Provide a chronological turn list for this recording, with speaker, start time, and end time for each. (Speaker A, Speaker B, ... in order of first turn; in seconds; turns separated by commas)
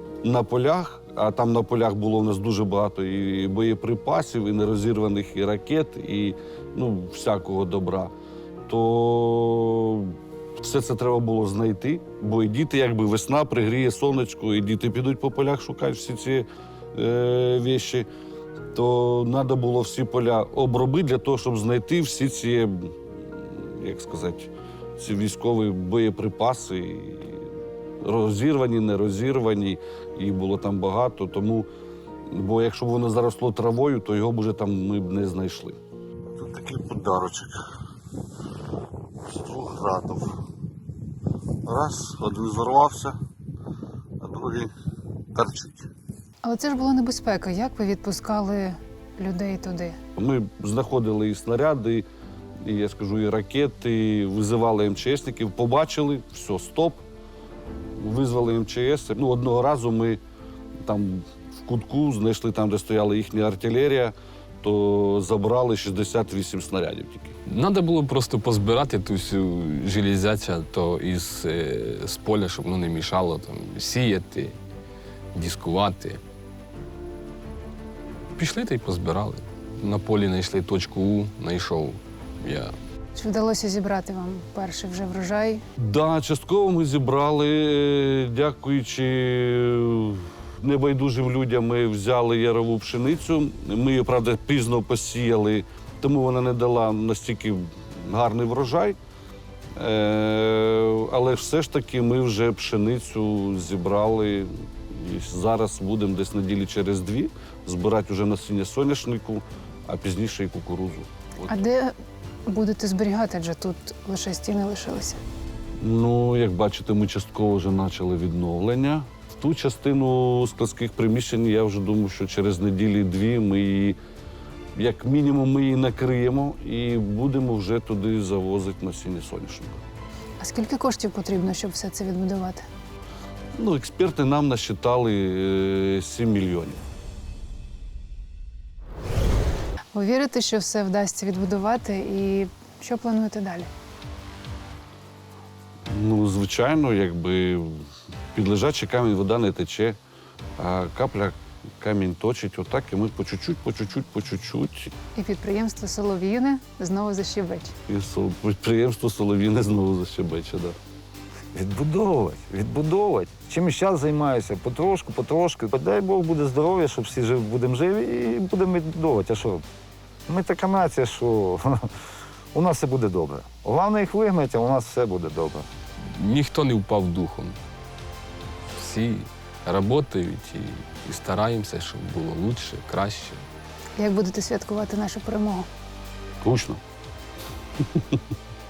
Speaker A: 0.2-8.1, Speaker A: 8.7-18.1, Speaker A: 18.7-22.9, Speaker A: 23.5-27.5, Speaker A: 28.0-31.7, Speaker A: 32.3-35.8, Speaker A: 36.3-37.6, Speaker A: 39.3-40.4, Speaker A: 41.6-43.1, Speaker A: 44.2-44.7, Speaker A: 45.3-45.9, Speaker B: 46.4-50.0, Speaker A: 50.2-52.0, Speaker A: 52.6-57.0, Speaker A: 58.0-60.2, Speaker A: 60.9-67.4, Speaker C: 67.5-74.6, Speaker C: 75.3-76.2, Speaker C: 78.4-82.7, Speaker B: 83.2-85.6, Speaker A: 85.8-99.0, Speaker A: 99.8-111.5, Speaker B: 111.5-111.9, Speaker B: 112.5-115.2, Speaker A: 115.8-124.0, Speaker A: 124.8-129.8, Speaker B: 130.4-132.7, Speaker A: 133.6-136.8, Speaker B: 139.9-143.7, Speaker A: 145.9-150.0, Speaker A: 150.6-154.9, Speaker B: 155.2-157.7, Speaker A: 157.9-160.8, Speaker D: 161.5-169.6, Speaker D: 170.3-171.9, Speaker D: 172.5-175.7, Speaker C: 176.0-177.6, Speaker C: 178.8-183.4, Speaker B: 184.0-185.7, Speaker A: 186.4-186.8